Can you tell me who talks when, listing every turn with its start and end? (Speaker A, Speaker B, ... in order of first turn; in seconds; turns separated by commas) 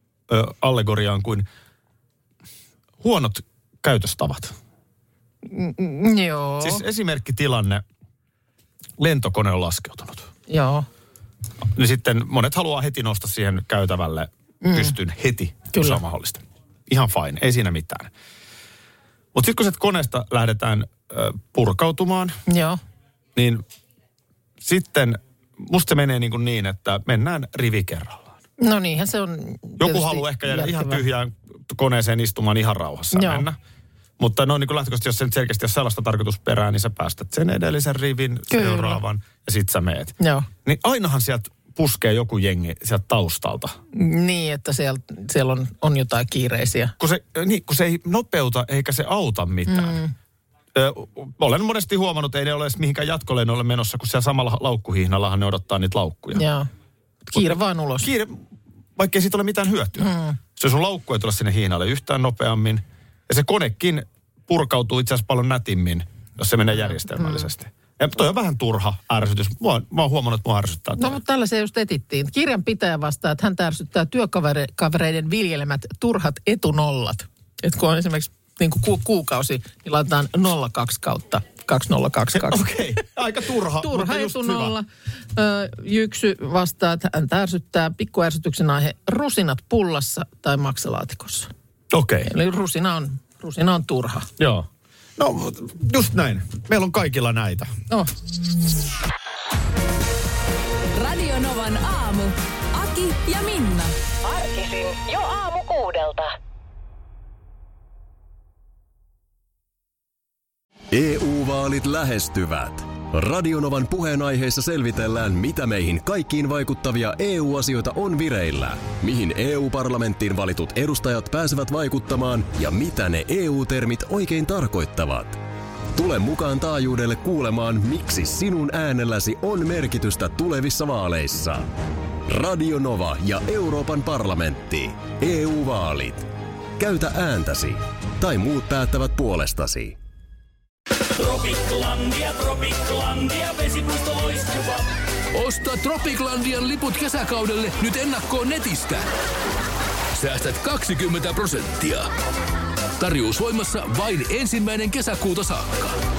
Speaker A: 0.3-1.4, Speaker A: 3.0-4.5, Speaker B: 5.4-6.8, Speaker A: 6.6-7.8, Speaker A: 9.0-10.3, Speaker B: 10.5-10.8, Speaker A: 11.7-18.1, Speaker B: 14.6-14.9, Speaker B: 15.7-16.0, Speaker A: 19.3-22.4, Speaker B: 22.5-22.8, Speaker A: 23.3-23.6, Speaker A: 24.6-28.3, Speaker B: 28.6-31.0, Speaker A: 29.8-33.6, Speaker B: 33.1-33.5, Speaker A: 34.2-43.8, Speaker B: 38.5-39.0, Speaker B: 40.2-40.5, Speaker B: 43.9-46.9, Speaker A: 47.0-50.0, Speaker B: 49.7-50.1, Speaker A: 50.7-56.4, Speaker B: 56.3-56.7, Speaker B: 57.3-58.1, Speaker A: 57.3-58.4, Speaker A: 59.0-71.2, Speaker B: 60.0-60.4, Speaker B: 66.8-67.5, Speaker B: 71.0-82.7, Speaker A: 82.3-84.8, Speaker B: 83.8-91.5, Speaker A: 91.9-92.3, Speaker B: 92.3-94.3, Speaker A: 94.4-97.7, Speaker C: 100.9-104.0, Speaker D: 104.2-106.3, Speaker E: 110.9-125.4, Speaker E: 125.9-131.7, Speaker E: 132.3-140.0, Speaker F: 141.1-149.1, Speaker F: 150.1-152.1, Speaker F: 153.0-156.0